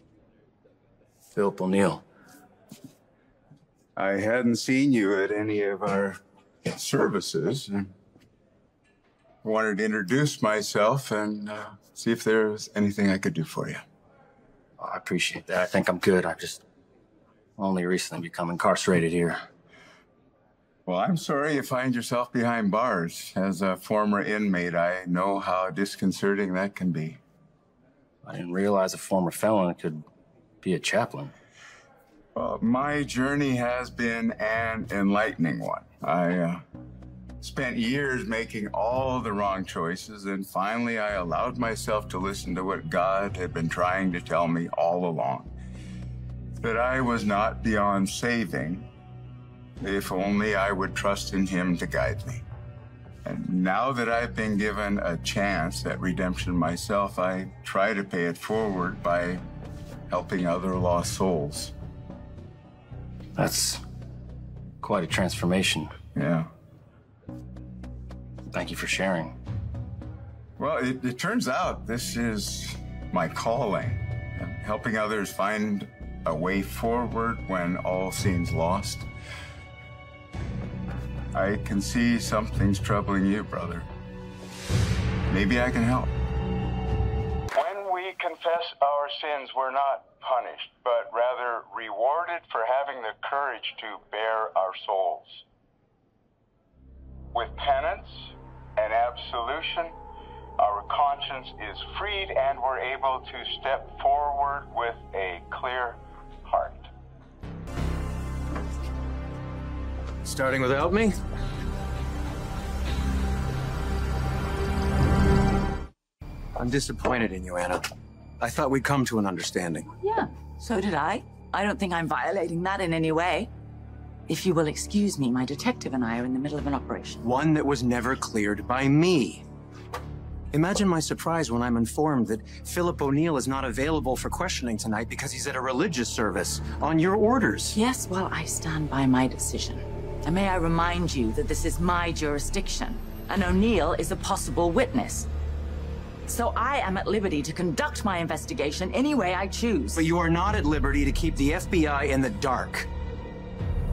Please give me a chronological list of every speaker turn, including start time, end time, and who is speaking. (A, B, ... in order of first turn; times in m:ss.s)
0:01.3-0:02.0 A
0:04.0-0:07.9 B
0:09.4-0:13.8 B
0:14.8-0:16.6 A
0:17.6-0:19.4 A
0:20.8-0:27.2 B
0:28.2-0:30.0 A
0:30.6-0:31.3 A
0:32.3-0:36.6 B
0:37.4-0:45.5 B
0:46.6-0:48.9 B
0:49.8-0:52.4 B
0:53.2-0:59.4 B
1:00.1-1:01.7 B
1:03.4-1:03.8 A
1:04.8-1:05.9 A
1:06.1-1:06.5 B
1:08.5-1:09.3 A
1:10.6-1:19.1 B
1:21.3-1:23.9 B
1:25.3-1:26.1 B
1:27.5-1:35.4 B
1:37.3-1:39.9 B
1:40.6-1:46.9 B
1:50.2-1:51.2 C
1:56.6-1:57.8 C
1:58.4-1:59.9 C
2:00.0-2:03.5 D
2:04.3-2:07.2 D
2:07.2-2:09.4 C
2:10.5-2:17.8 C
2:17.7-2:25.3 D
2:26.2-2:30.0 D
2:29.9-2:32.9 C